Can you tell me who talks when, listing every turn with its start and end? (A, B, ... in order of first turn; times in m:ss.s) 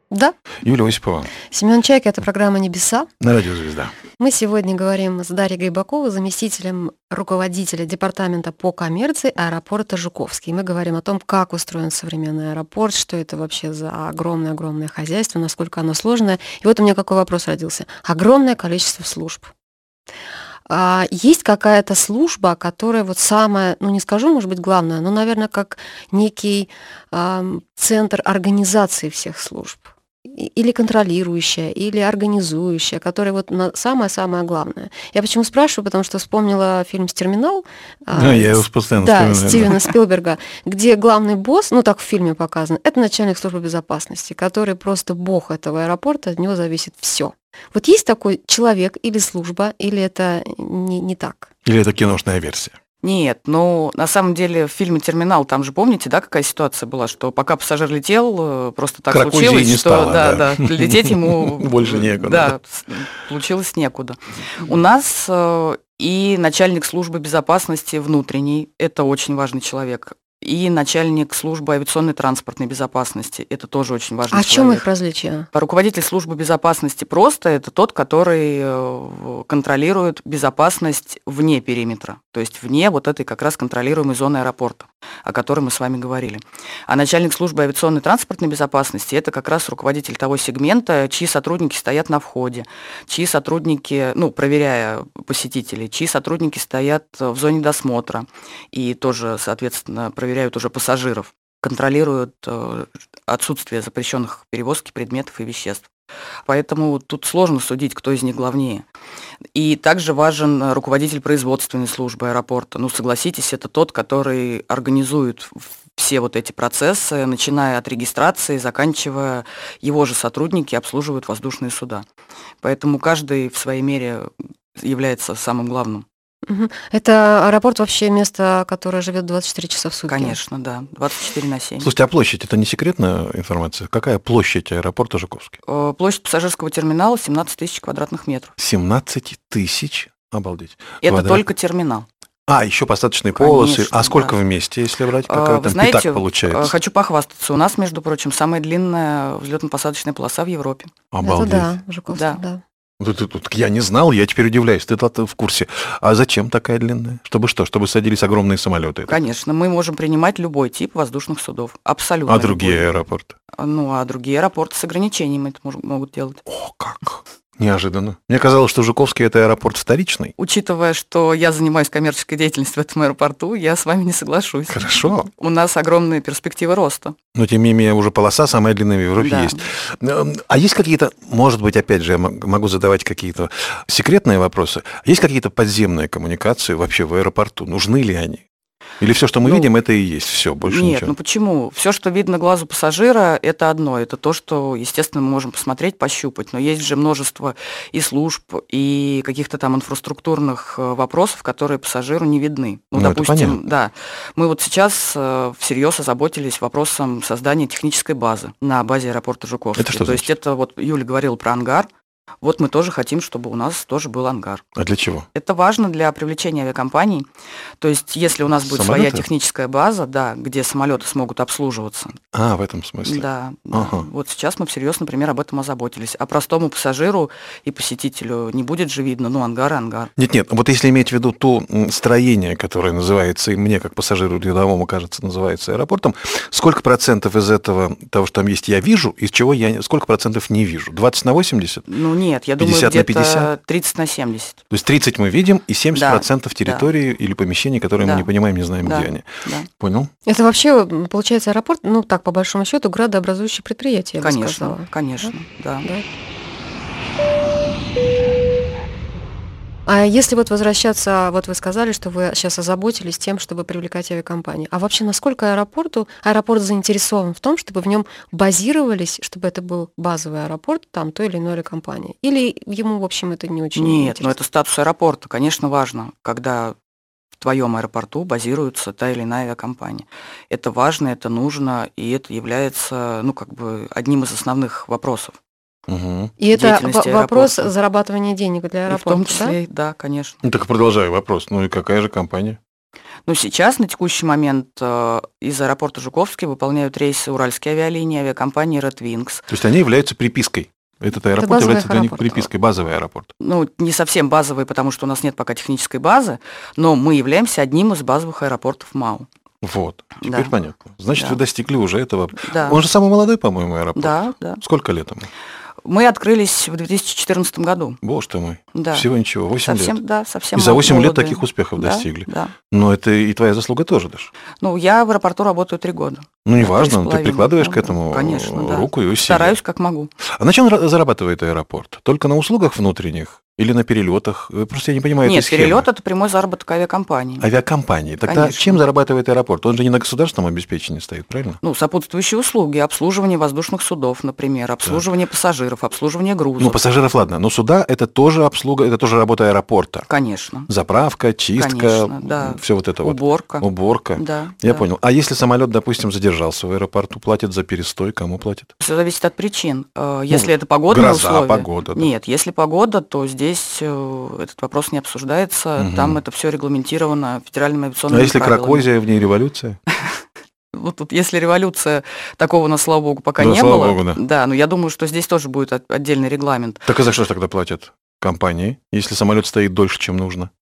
0:00.1-0:00.4 A
0:00.6-0:01.3 B
0:01.4-0:03.1 A
0:03.2-0:04.0 B
0:04.2-0:19.5 A
0:20.7-0:51.5 A
0:38.1-0:39.9 B
0:51.6-0:52.8 B
0:53.0-1:14.8 C
0:59.1-1:02.6 B
1:14.3-1:15.5 A
1:15.5-1:45.9 C
1:46.5-1:48.8 C
1:49.6-2:02.0 C
2:02.6-2:06.1 C
2:06.5-2:10.4 A
2:10.1-2:11.9 C
2:11.8-2:15.6 B
2:15.7-2:18.5 C
2:18.6-2:21.4 B
2:21.0-2:22.1 C
2:22.5-2:26.7 B
2:23.4-2:24.4 C
2:25.3-2:30.9 C
2:31.1-2:31.8 B
2:31.2-2:32.6 A
2:32.1-2:32.4 C
2:33.0-2:39.2 B
2:39.1-2:42.9 C
2:42.3-2:43.4 B
2:43.6-2:46.4 C
2:46.5-2:50.3 B
2:50.4-2:57.2 C
2:54.7-2:55.3 B
2:57.3-3:08.4 B
2:59.2-2:59.6 C
3:09.0-3:11.1 B
3:10.7-3:31.9 C
3:22.9-3:23.6 B
3:29.8-3:30.3 B
3:32.4-3:34.6 C
3:34.8-3:35.3 B
3:35.3-3:37.3 C
3:37.8-3:42.2 C
3:38.5-3:39.3 B
3:42.3-3:44.1 B
3:43.0-3:50.1 C
3:50.2-4:01.9 B
4:01.9-4:04.6 C
4:02.6-4:03.5 B
4:04.7-4:10.1 B
4:05.9-4:06.9 C
4:08.0-4:08.3 C
4:08.8-4:09.7 C
4:10.3-4:15.3 A
4:14.2-4:15.9 C
4:19.9-4:34.4 A
4:33.8-4:36.8 C
4:37.4-4:45.4 C
4:45.9-4:46.3 B
4:46.4-4:49.6 A
4:46.5-4:47.7 C
4:48.9-4:50.4 C
4:50.4-4:52.6 B
4:53.3-4:59.5 C
4:59.5-5:03.3 B
5:01.4-5:02.5 A
5:03.4-5:09.3 C
5:09.6-5:15.3 B
5:10.2-5:10.5 C
5:12.4-5:12.8 C
5:14.0-5:14.6 C
5:15.8-5:18.0 C
5:18.0-5:20.0 B
5:18.7-5:19.1 C
5:19.6-5:22.5 C
5:20.6-5:24.3 B
5:24.6-5:30.1 C
5:26.4-5:29.6 B
5:30.2-5:35.9 B
5:35.2-5:37.5 C
5:37.4-5:41.6 B
5:38.3-5:38.8 C
5:41.6-5:46.8 C
5:46.6-5:50.1 B
5:50.1-5:50.7 C
5:50.7-5:58.7 B
5:51.6-5:54.9 C
5:58.8-6:08.9 C
6:00.3-6:02.1 B
6:05.8-6:06.2 B
6:08.1-6:09.8 B
6:10.7-6:16.9 C
6:13.4-6:14.2 B
6:16.9-6:20.5 B